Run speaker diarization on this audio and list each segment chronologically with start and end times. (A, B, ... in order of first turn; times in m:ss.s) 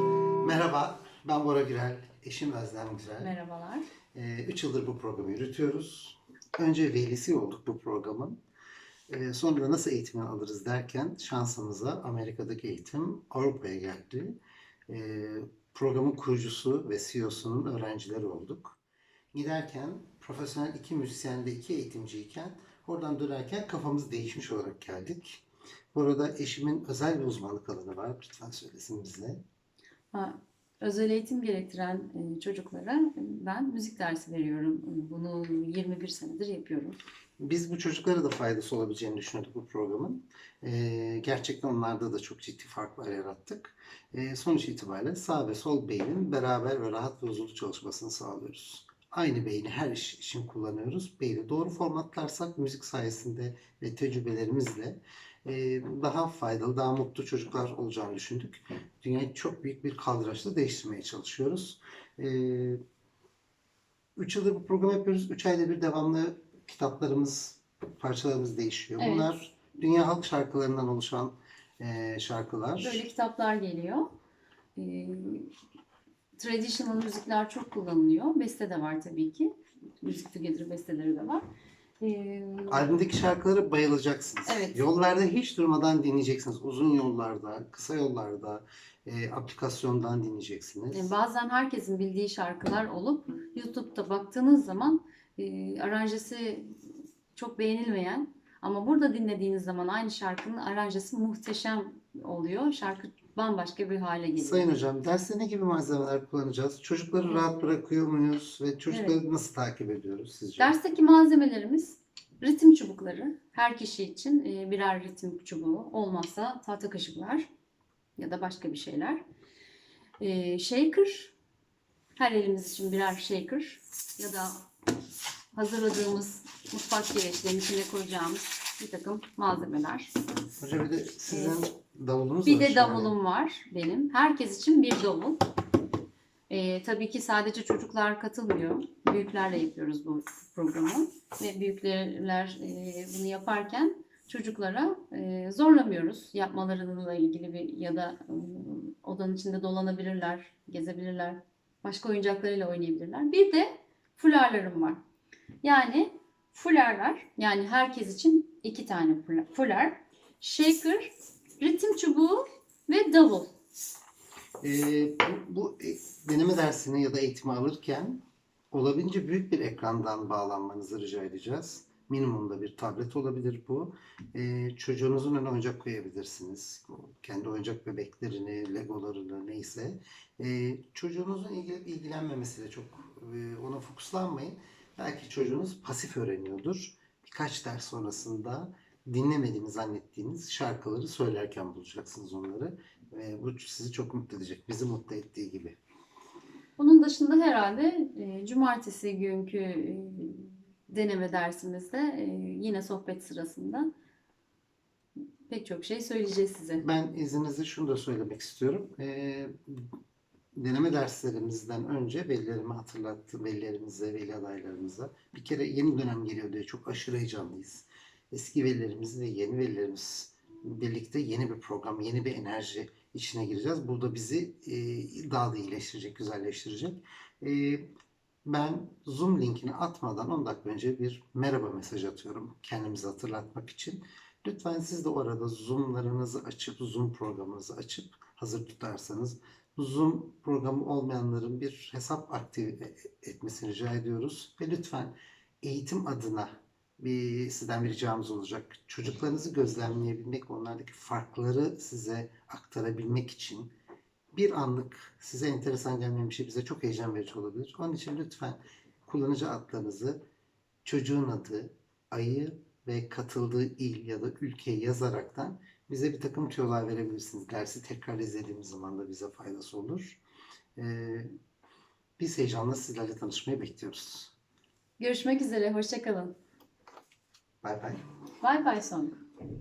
0:00.4-0:03.3 A
0:03.2-0:03.8 B
0:04.1-0:08.4 A
0:09.1-0:14.4 A
0:14.9-0:18.8 A
0:19.3-0:29.4 A
0:30.1-0:37.0 B
0:37.4-1:02.8 A
1:04.2-1:13.0 A
1:09.0-1:09.3 B
1:12.8-1:14.1 B
1:14.8-1:15.5 B
1:16.4-1:19.5 B
1:20.0-1:21.4 B
1:22.0-1:22.9 B
1:22.7-1:31.1 A
1:24.4-1:24.8 B
1:30.9-1:36.7 B
1:37.3-1:44.7 B
1:44.4-1:50.7 A
1:48.9-1:49.2 B
1:50.6-1:57.4 B
1:58.2-1:59.2 B
2:00.2-2:01.3 B
2:02.2-2:04.6 B
2:05.5-2:10.1 B
2:10.6-2:13.1 A
2:11.3-2:11.6 B
2:12.4-2:15.4 B
2:16.5-2:35.0 B
2:35.6-2:43.5 B
2:44.6-3:15.8 A
3:16.8-3:23.9 B
3:25.5-3:26.8 B
3:26.8-3:29.9 A
3:30.5-3:47.9 A
3:48.4-4:13.7 A
4:14.3-4:20.2 A
4:20.8-4:30.2 A
4:30.8-4:31.3 A
4:32.2-4:34.3 A
4:35.0-4:36.3 B
4:37.6-4:38.0 A
4:38.4-4:39.2 B